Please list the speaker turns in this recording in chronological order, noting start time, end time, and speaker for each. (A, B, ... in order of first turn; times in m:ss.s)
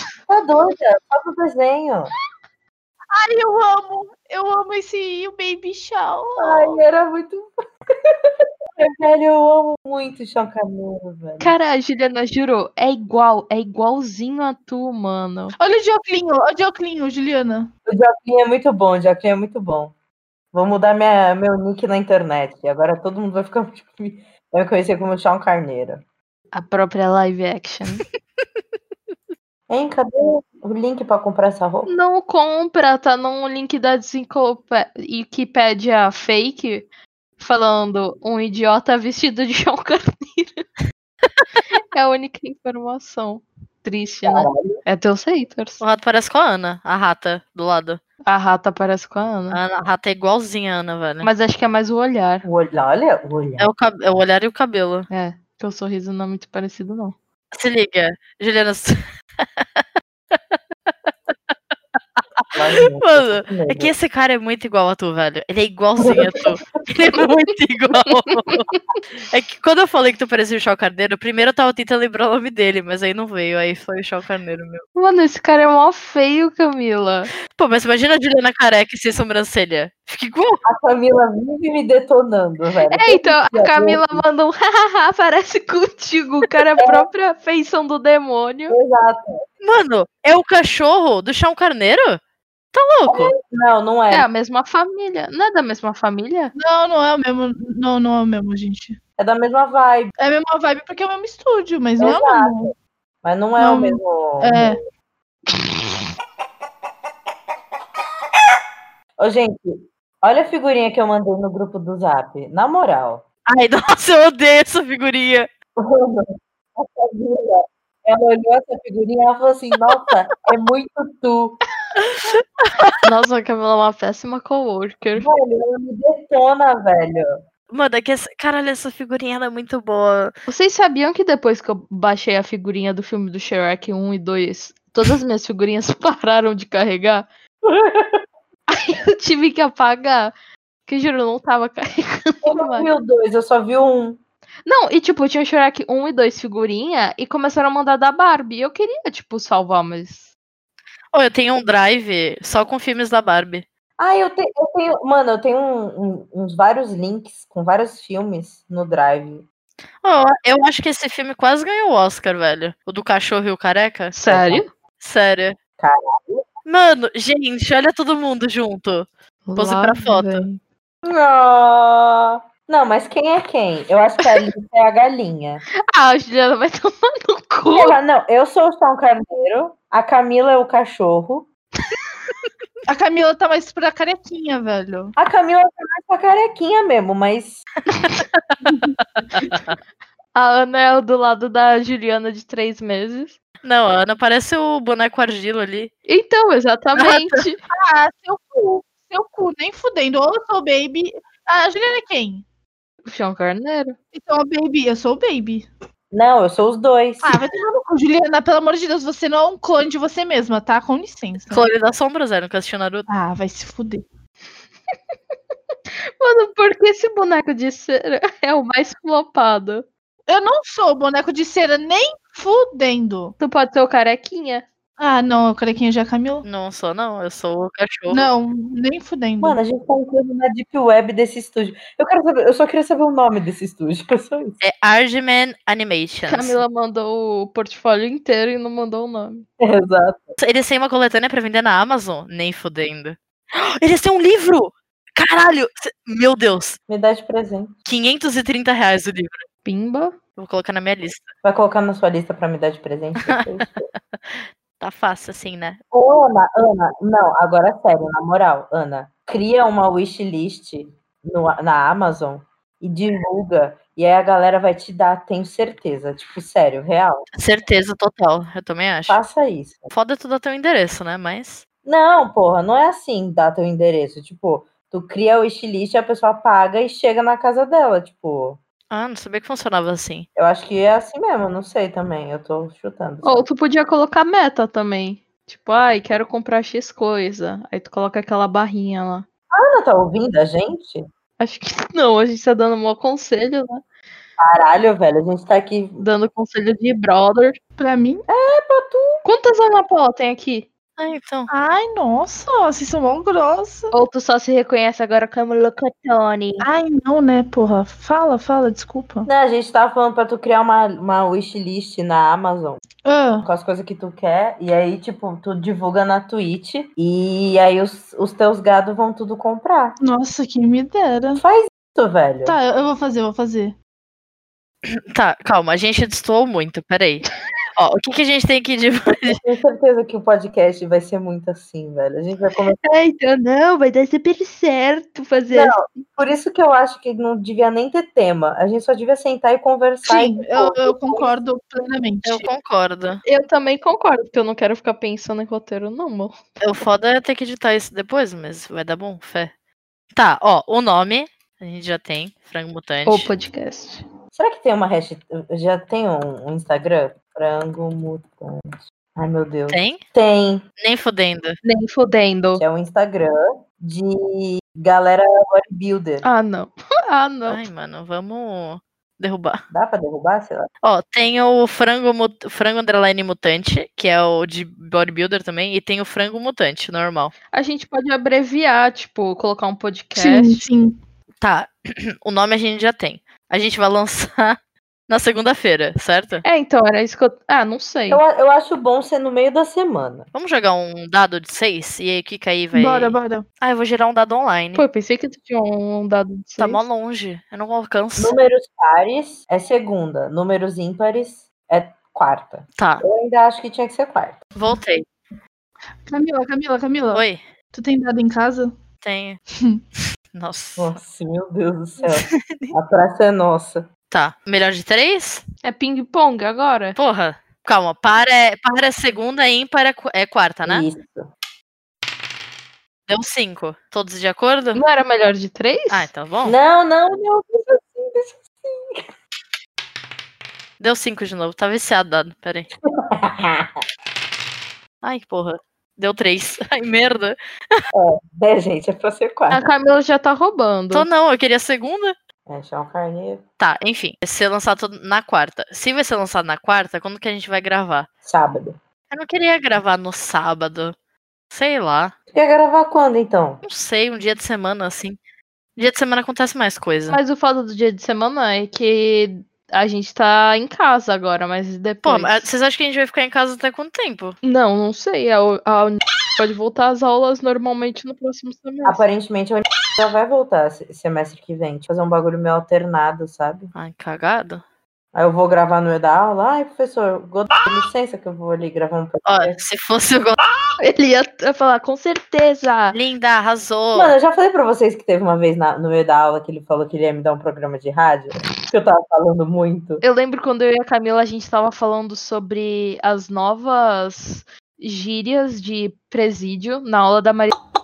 0:00.3-0:02.1 A
0:03.1-0:06.8 B
0:06.4-0:07.5 A
0:08.8-0:11.5 A
0:11.4-0:15.6 C
0:15.6-0:17.7 B
0:17.9-0:19.9 A
0:20.5-0:26.0 A
0:26.5-0:28.0 C
0:29.7-0:31.9 A
0:31.9-0:36.9 C
0:37.4-0:40.6 C
0:41.8-0:45.8 C
0:44.2-0:44.8 A
0:45.8-0:48.0 D
0:48.3-0:49.6 C
0:49.5-0:51.3 D
0:51.2-0:52.5 C
0:52.4-0:53.7 A
0:53.6-0:55.1 D
0:55.1-0:57.2 C
0:57.5-0:59.0 D
0:59.6-1:01.3 D
1:02.4-1:14.8 D
1:02.5-1:03.9 A
1:06.0-1:06.4 A
1:15.0-1:17.3 C
1:17.5-1:20.6 D
1:20.6-1:24.2 A
1:22.9-1:28.8 C
1:26.8-1:27.1 A
1:28.7-1:29.4 A
1:29.6-1:32.2 D
1:32.7-1:33.3 D
1:33.1-1:34.3 A
1:34.1-1:36.5 C
1:36.5-1:39.0 B
1:39.2-1:40.1 A
1:40.2-1:42.7 B
1:42.0-1:44.8 A
1:43.6-1:44.8 B
1:49.2-1:53.2 A
1:53.5-1:55.5 D
1:55.8-1:56.3 A
1:56.8-2:01.6 A
2:02.6-2:02.9 D
2:03.0-2:05.3 C
2:05.2-2:07.3 A
2:07.7-2:10.3 D
2:10.5-2:17.3 C
2:17.7-2:18.1 A
2:18.7-2:20.3 C
2:20.9-2:22.9 C
2:22.4-2:24.2 A
2:24.7-2:30.3 C
2:31.1-2:33.7 D
2:34.0-2:39.4 A
2:40.0-2:44.2 D
2:44.1-2:44.7 C
2:44.3-2:44.6 A
2:45.0-2:45.6 D
2:45.8-2:46.5 A
2:46.7-2:50.5 D
2:49.5-2:50.6 C
2:51.0-2:55.6 A
2:55.9-2:58.0 C
2:57.7-3:01.5 A
3:02.9-3:05.1 B
3:05.2-3:07.7 A
3:08.0-3:09.7 D
3:08.7-3:08.9 B
3:10.3-3:13.4 C
3:13.6-3:15.9 D
3:16.1-3:17.6 C
3:17.0-3:17.2 D
3:17.7-3:22.4 B
3:23.0-3:24.0 C
3:24.1-3:25.7 B
3:26.1-3:27.4 A
3:27.2-3:31.7 B
3:31.5-3:33.1 D
3:33.1-3:34.0 B
3:36.2-3:39.9 C
3:40.3-3:43.3 B
3:43.4-3:44.6 C
3:45.0-3:46.5 B
3:46.4-3:48.3 D
3:48.1-3:49.6 B
3:49.4-3:54.6 A
3:54.6-3:56.6 D
3:56.3-3:59.5 C
3:59.6-4:00.4 A
4:00.4-4:06.8 D
4:06.9-4:07.8 A
4:07.8-4:09.4 D
4:09.6-4:10.2 C
4:10.4-4:11.3 D
4:11.4-4:13.9 A
4:14.2-4:15.8 D
4:15.9-4:27.3 A
4:27.4-4:29.2 D
4:29.1-4:29.9 A
4:29.9-4:31.6 D
4:31.8-4:38.6 A
4:38.9-4:40.3 D
4:40.4-4:43.5 A
4:43.2-4:49.2 C
4:49.5-4:51.0 A
4:51.4-4:53.8 C
4:54.4-4:56.0 A
4:56.0-4:57.6 C
4:57.8-4:58.2 B
4:58.3-4:59.1 A
4:59.2-5:00.7 C
5:01.0-5:01.5 D
5:01.5-5:03.9 B
5:03.9-5:06.7 C
5:06.6-5:09.3 B
5:09.3-5:12.8 A
5:13.0-5:13.5 B
5:13.4-5:20.0 A
5:20.0-5:21.4 B
5:21.4-5:22.6 A
5:22.5-5:23.8 B
5:25.1-5:29.4 D
5:29.3-5:32.8 A
5:32.9-5:35.8 C
5:35.5-5:41.4 A
5:40.1-5:42.5 B
5:42.2-5:43.2 D
5:43.2-5:46.4 C
5:46.6-5:49.5 D
5:50.2-5:53.3 D
5:53.1-5:54.0 C
5:54.3-6:00.6 A
5:59.7-6:00.0 D
6:00.8-6:01.6 D
6:01.6-6:02.6 C
6:02.6-6:06.3 A
6:06.2-6:07.6 C
6:07.5-6:09.6 D
6:09.7-6:10.7 A
6:10.8-6:17.3 D
6:17.5-6:20.7 C
6:20.2-6:21.0 B
6:21.4-6:24.6 D
6:25.1-6:26.4 D
6:26.4-6:28.2 C
6:28.1-6:30.3 A
6:30.3-6:34.8 D
6:32.7-6:33.4 B
6:34.8-6:36.8 C
6:36.6-6:38.4 D
6:38.2-6:44.4 A
6:42.8-6:43.0 D
6:44.6-6:45.1 D
6:46.1-6:48.8 B
6:47.1-6:47.4 D
6:49.0-6:49.4 D
6:50.3-6:50.9 D
6:50.8-6:53.9 A
6:52.2-6:52.7 D
6:54.1-6:55.4 D
6:55.6-6:57.0 C
6:57.0-7:00.9 D
7:00.6-7:01.3 A
7:03.1-7:04.8 D
7:04.8-7:06.1 C
7:05.9-7:06.6 D
7:06.4-7:09.0 A
7:10.8-7:12.7 D
7:13.0-7:13.8 A
7:15.0-7:17.4 D
7:17.9-7:19.6 A
7:19.5-7:21.1 C
7:20.9-7:22.2 D
7:22.5-7:23.4 A
7:23.6-7:28.1 D
7:28.2-7:28.8 A
7:29.1-7:31.0 D
7:31.5-7:32.1 D
7:32.3-7:33.6 A
7:33.6-7:35.2 D
7:35.8-7:37.2 D
7:37.1-7:42.5 C
7:42.0-7:44.4 D
7:44.4-7:49.0 C
7:48.8-7:53.7 A
7:53.7-7:54.6 D
7:55.1-7:59.6 A
7:59.2-8:00.4 D
8:00.8-8:03.0 C
8:02.9-8:04.1 D
8:03.9-8:10.0 A
8:10.0-8:17.6 C